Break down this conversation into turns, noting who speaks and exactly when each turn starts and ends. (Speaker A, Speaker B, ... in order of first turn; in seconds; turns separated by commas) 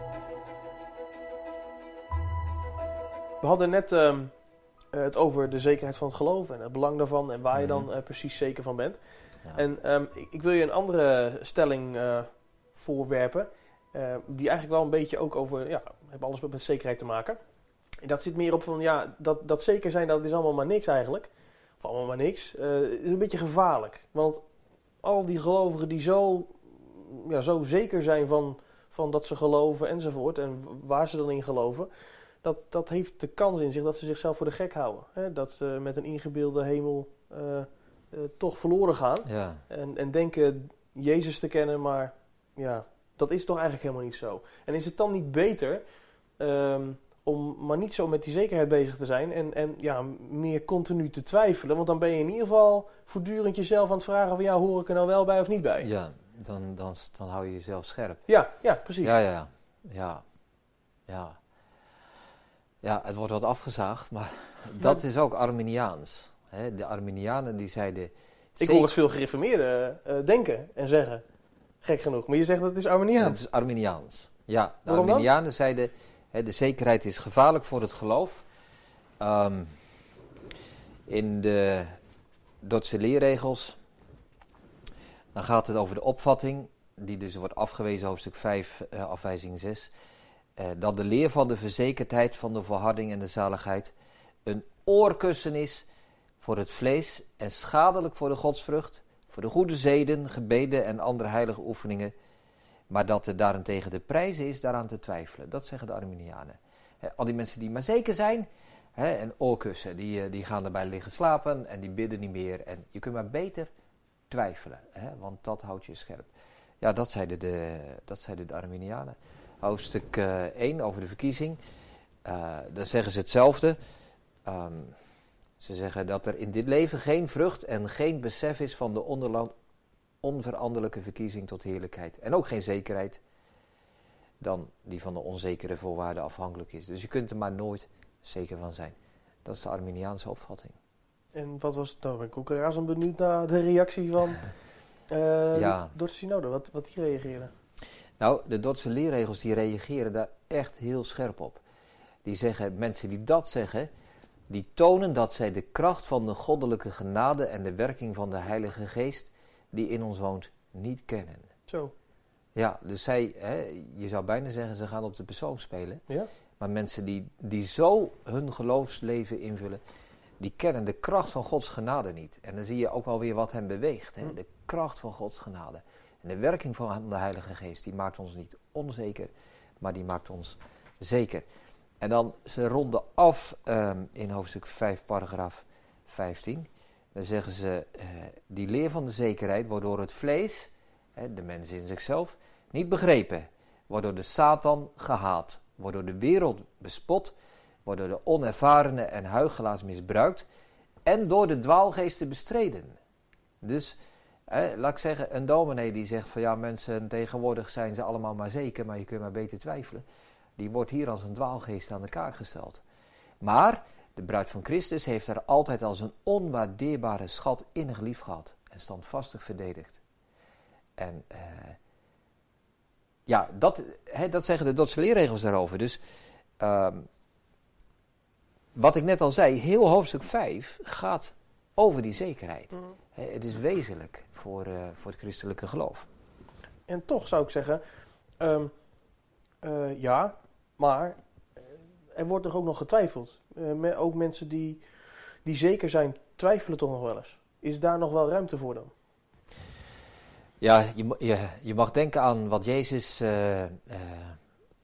Speaker A: 3.4-17.4, Speaker B: 7.5-7.9, Speaker A: 18.0-24.4, Speaker A: 25.0-45.8, Speaker B: 39.2-39.6, Speaker A: 46.4-55.9, Speaker B: 55.8-58.2, Speaker A: 58.2-59.2, Speaker B: 59.0-60.2, Speaker B: 61.1-61.4, Speaker B: 62.8-68.9, Speaker A: 68.6-71.2, Speaker A: 71.8-73.4, Speaker B: 73.2-78.4, Speaker A: 74.9-75.3, Speaker B: 79.2-79.7, Speaker B: 81.1-81.9, Speaker B: 82.6-83.8, Speaker B: 85.3-89.9, Speaker B: 90.6-93.9, Speaker B: 94.4-95.8, Speaker B: 96.4-102.1, Speaker B: 102.9-113.7, Speaker B: 114.3-116.3, Speaker B: 116.8-121.6, Speaker B: 122.2-123.8, Speaker B: 124.4-124.9, Speaker B: 125.6-129.5, Speaker B: 130.2-133.2, Speaker B: 134.4-140.8, Speaker A: 141.3-144.5, Speaker A: 145.1-147.5, Speaker B: 145.5-145.9, Speaker B: 148.2-151.6, Speaker B: 152.2-153.9, Speaker B: 154.5-161.5, Speaker A: 161.7-161.9, Speaker B: 162.5-166.0, Speaker B: 166.6-169.8, Speaker B: 170.4-181.4, Speaker B: 182.0-197.3, Speaker B: 197.8-200.4, Speaker B: 201.1-202.9, Speaker B: 203.6-204.0, Speaker B: 204.5-210.0, Speaker B: 210.6-212.8, Speaker B: 213.4-220.0, Speaker B: 221.0-221.8, Speaker B: 223.3-226.0, Speaker B: 226.6-227.1, Speaker B: 228.7-236.1, Speaker A: 236.9-237.8, Speaker A: 238.4-238.7, Speaker A: 239.6-241.2, Speaker A: 242.1-248.9, Speaker B: 250.6-254.4